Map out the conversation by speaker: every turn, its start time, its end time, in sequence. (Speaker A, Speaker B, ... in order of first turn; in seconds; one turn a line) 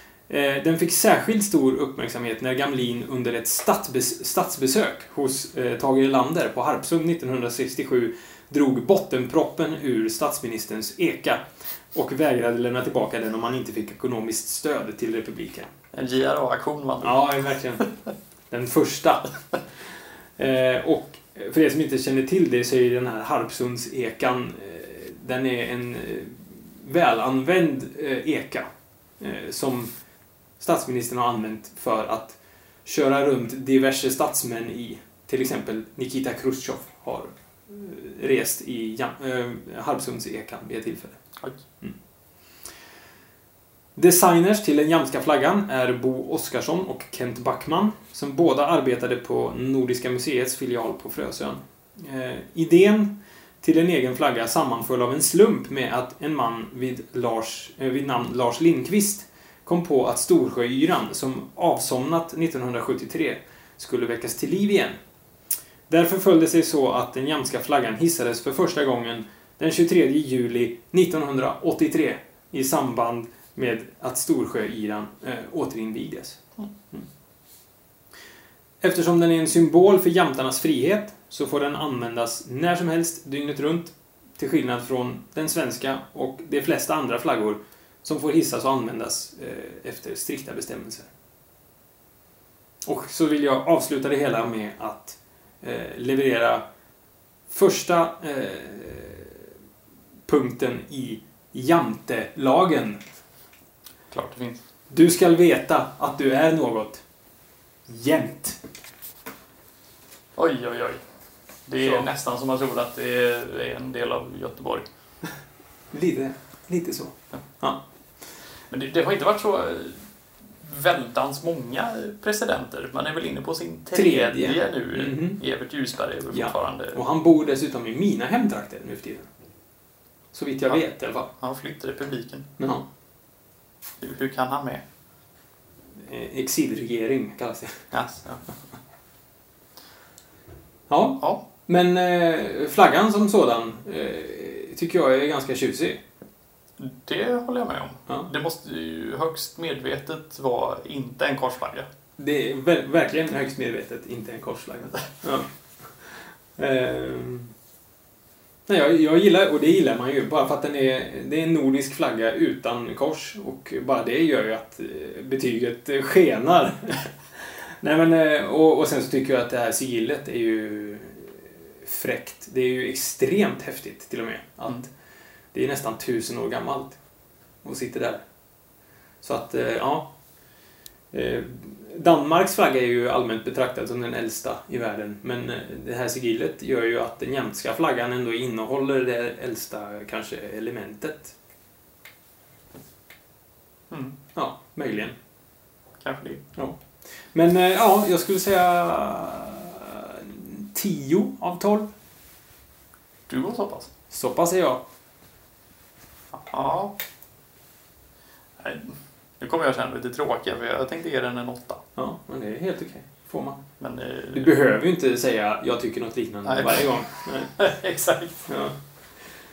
Speaker A: 0.3-15.7
Speaker B: 15.9-17.3
Speaker A: 17.0-17.9
Speaker A: 18.5-19.3
Speaker A: 20.4-28.6
Speaker A: 29.2-29.9
Speaker A: 30.6-41.2
Speaker A: 44.0-65.0
Speaker A: 65.9-76.4
Speaker A: 78.8-91.1
Speaker A: 92.8-96.6
Speaker A: 97.5-99.5
Speaker A: 100.3-103.0
Speaker B: 104.1-104.6
Speaker A: 104.9-107.0
Speaker A: 107.9-108.6
Speaker B: 110.4-111.0
Speaker B: 111.7-114.8
Speaker A: 111.8-112.1
Speaker A: 115.9-117.8
Speaker B: 118.7-120.0
Speaker B: 120.6-127.0
Speaker A: 123.9-125.4
Speaker A: 126.3-129.3
Speaker A: 130.3-131.3
Speaker B: 130.7-132.5
Speaker A: 132.6-132.8
Speaker B: 134.0-134.8
Speaker A: 136.0-137.9
Speaker B: 137.9-138.4
Speaker A: 140.9-146.0
Speaker B: 146.8-151.8
Speaker A: 152.2-157.5
Speaker A: 158.7-174.9
Speaker A: 175.5-177.0
Speaker A: 177.6-178.2
Speaker A: 179.2-180.1
Speaker A: 181.1-191.3
Speaker B: 193.9-194.2
Speaker A: 194.3-195.2
Speaker B: 196.0-196.4
Speaker A: 196.6-201.9
Speaker B: 203.3-203.9
Speaker A: 204.1-204.8
Speaker B: 206.3-206.9
Speaker B: 208.6-211.8
Speaker A: 212.0-213.6
Speaker B: 213.8-214.5
Speaker A: 214.3-217.6
Speaker B: 216.5-218.5
Speaker A: 218.5-218.8